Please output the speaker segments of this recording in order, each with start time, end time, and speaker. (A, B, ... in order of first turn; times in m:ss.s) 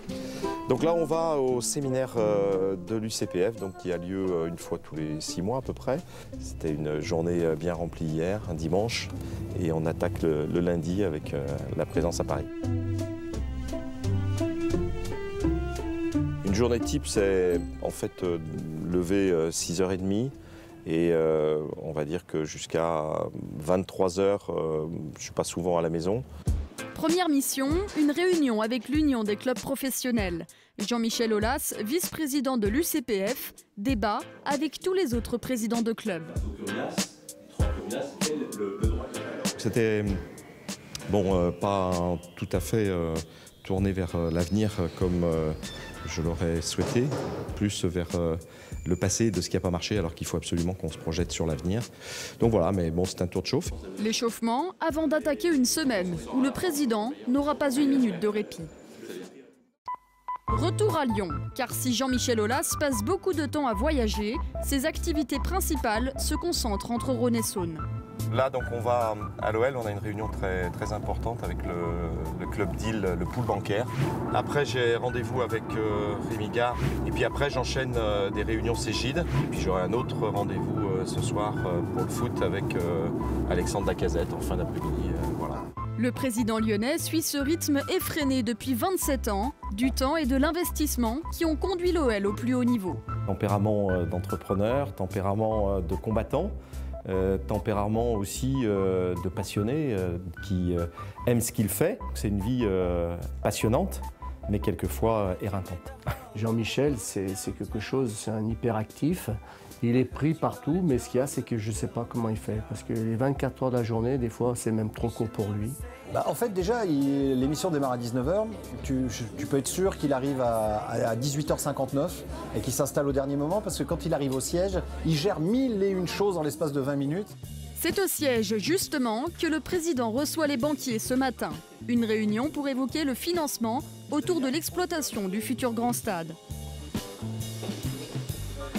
0:00.7-0:12.5 A
0:16.4-0:20.3 A
0:20.8-0:26.2 A
0:26.9-0:36.3 B
0:36.4-0:36.9 A
0:37.6-0:38.7 A
0:39.6-0:40.2 A
0:41.1-0:51.9 A
0:52.4-0:53.7 A
0:54.0-0:58.7 B
1:00.5-1:07.8 B
1:08.3-1:25.7 A
1:26.0-1:33.0 B
1:33.2-1:36.5 A
1:37.0-1:45.9 A
1:46.3-1:55.8 C
1:56.1-2:07.3 D
2:07.8-2:16.4 B